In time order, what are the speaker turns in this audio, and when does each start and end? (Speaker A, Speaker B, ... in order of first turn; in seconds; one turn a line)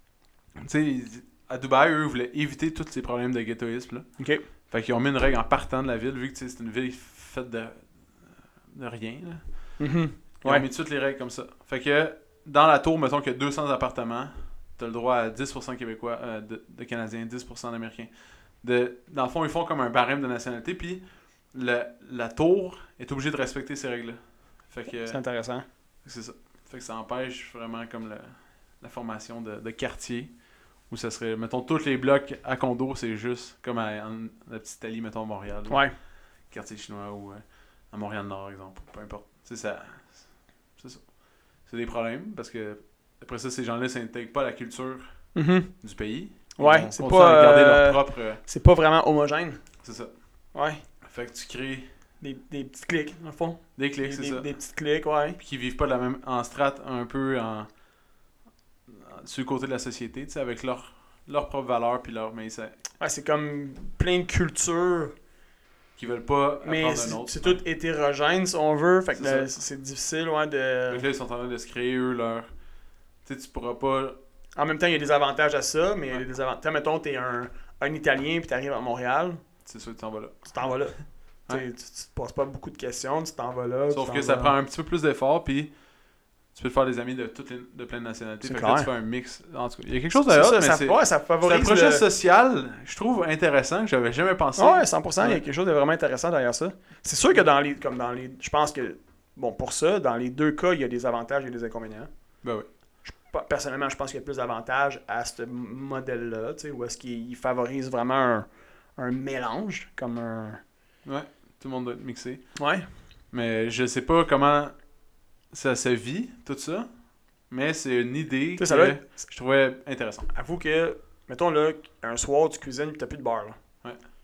Speaker A: 0.6-4.1
Speaker B: 4.2-4.5
Speaker A: 4.6-9.8
Speaker B: 9.8-10.6
Speaker A: 10.4-25.2
Speaker B: 25.0-25.6
Speaker A: 26.0-30.3
Speaker A: 30.9-35.9
Speaker B: 35.7-36.0
Speaker A: 36.5-41.1
Speaker A: 41.6-45.3
Speaker B: 45.3-45.7
Speaker A: 45.8-48.4
Speaker B: 46.5-49.6
Speaker A: 49.8-50.1
Speaker B: 50.5-50.8
Speaker A: 51.0-51.9
Speaker B: 52.2-55.4
Speaker A: 53.8-54.5
Speaker A: 55.4-57.7
Speaker A: 58.9-62.8
Speaker B: 63.0-65.1
Speaker A: 66.0-67.6
Speaker B: 66.6-71.0
Speaker A: 69.1-69.5
Speaker A: 70.9-72.5
Speaker A: 73.2-74.2
Speaker B: 74.5-79.4
Speaker A: 79.6-80.5
Speaker B: 80.5-84.5
Speaker A: 83.9-85.7
Speaker A: 86.5-95.4
Speaker B: 88.4-88.9
Speaker B: 90.1-92.0
Speaker B: 94.6-102.1
Speaker B: 103.1-110.6
Speaker A: 111.0-112.5
Speaker B: 112.6-112.8
Speaker A: 113.3-114.7
Speaker A: 115.5-116.9
Speaker A: 117.5-120.3
Speaker B: 118.6-119.2
Speaker B: 120.3-123.6